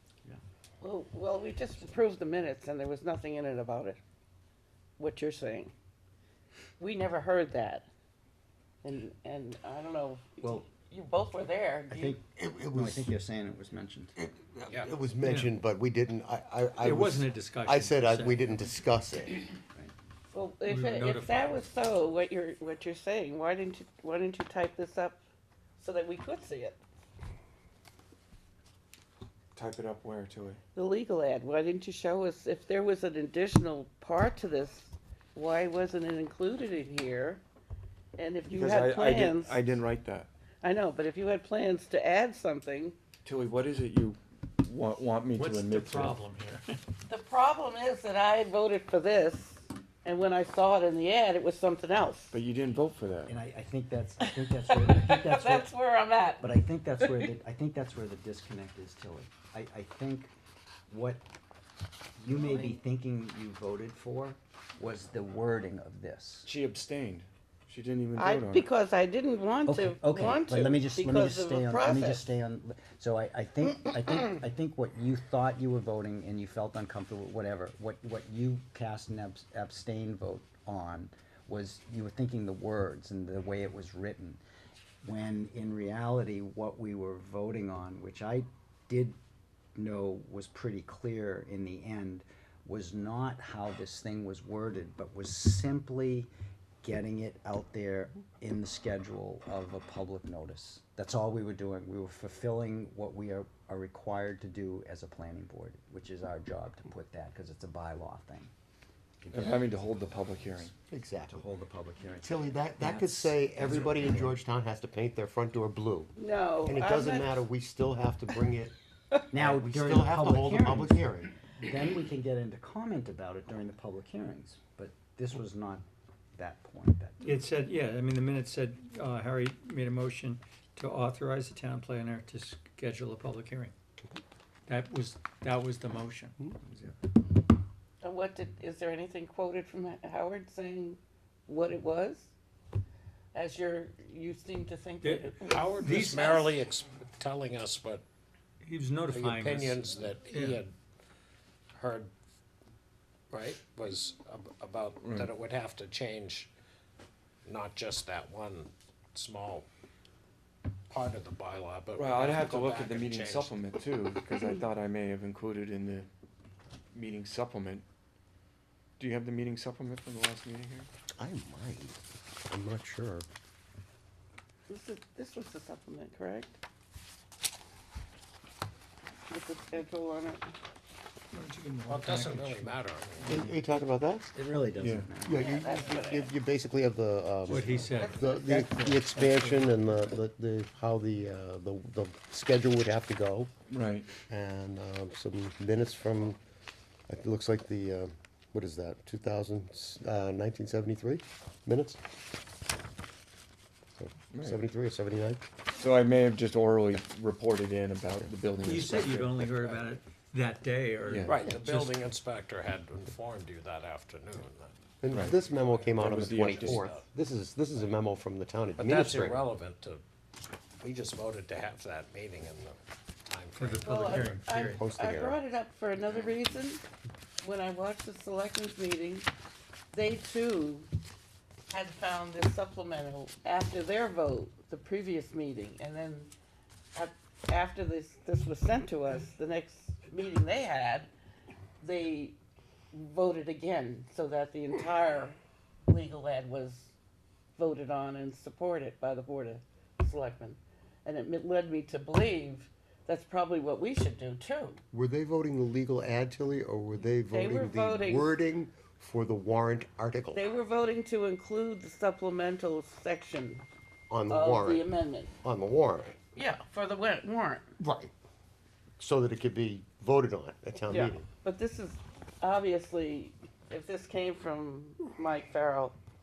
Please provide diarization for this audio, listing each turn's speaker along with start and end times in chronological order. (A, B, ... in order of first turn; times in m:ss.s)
0:00.8-0:04.0 A
0:05.0-0:05.7 A
0:06.8-0:07.9 A
0:08.8-0:12.2 A
0:10.4-0:10.7 B
0:11.9-0:14.1 B
0:12.4-0:13.1 C
0:14.2-0:19.4 C
0:15.2-0:15.5 D
0:16.8-0:18.6 D
0:20.3-0:25.2 A
0:20.7-0:21.7 D
0:25.8-0:26.8 A
0:29.6-0:30.6 E
0:30.7-0:37.4 A
0:38.2-0:39.4 A
0:38.5-0:40.3 E
0:40.7-0:43.0 A
0:43.2-0:46.2 E
0:45.4-0:46.7 D
0:47.3-0:52.3 A
0:52.3-0:53.4 E
0:53.3-0:55.7 B
0:54.2-0:57.3 A
0:56.4-1:00.3 B
1:00.9-1:01.2 B
1:02.2-1:06.5 B
1:02.3-1:02.8 A
1:06.4-1:08.7 E
1:08.2-1:12.2 A
1:09.6-1:24.4 B
1:25.0-1:29.2 B
1:29.8-1:36.3 B
1:36.8-1:48.5 B
1:49.2-1:49.7 B
1:49.3-1:50.7 E
1:50.9-1:51.4 C
1:51.3-1:54.4 B
1:52.2-1:56.1 C
1:56.2-1:57.3 A
1:56.6-1:58.7 C
1:59.3-2:01.1 B
1:59.3-2:01.3 C
2:01.6-2:05.8 B
2:06.4-2:07.4 B
2:07.2-2:13.7 D
2:14.7-2:16.4 D
2:18.1-2:22.3 A
2:23.3-2:25.6 A
2:25.0-2:26.5 D
2:25.4-2:28.0 F
2:28.6-2:30.6 D
2:29.1-2:30.8 F
2:31.7-2:32.1 F
2:33.3-2:36.5 F
2:35.0-2:35.3 E
2:37.4-2:39.7 F
2:40.9-2:43.6 F
2:42.0-2:46.1 E
2:46.9-2:47.9 E
2:49.0-2:50.9 E
2:51.2-2:53.3 C
2:54.8-2:56.5 A
2:59.3-3:00.5 A
3:01.3-3:02.7 D
3:01.9-3:03.4 F
3:03.2-3:04.3 C
3:03.3-3:05.5 B
3:04.8-3:05.1 E
3:05.2-3:13.5 C
3:05.4-3:06.2 A
3:07.5-3:08.3 D
3:07.5-3:09.7 B
3:08.0-3:08.3 A
3:13.7-3:14.1 E
3:14.2-3:16.4 C
3:17.1-3:22.0 C
3:24.0-3:25.5 C
3:24.3-3:24.6 E
3:25.7-3:29.4 E
3:28.6-3:31.9 D
3:31.1-3:31.5 E
3:31.2-3:37.0 F
3:35.0-3:39.4 C
3:35.9-3:36.8 E
3:38.8-3:40.0 F
3:40.8-3:44.4 F
3:43.6-3:44.9 D
3:43.9-3:46.8 A
3:44.5-3:45.4 C
3:47.5-3:49.2 A
3:49.9-3:50.9 A
3:51.8-3:56.3 A
3:57.0-4:01.1 A
4:01.8-4:02.4 A
4:02.9-4:06.9 A
4:07.6-4:14.8 A
4:14.9-4:20.4 C
4:17.4-4:18.4 A
4:20.4-4:23.6 A
4:24.1-4:24.9 C
4:24.3-4:25.2 A
4:25.4-4:26.2 C
4:26.4-4:27.7 A
4:27.8-4:28.1 C
4:29.0-4:31.2 C
4:31.0-4:33.4 A
4:34.0-4:35.9 A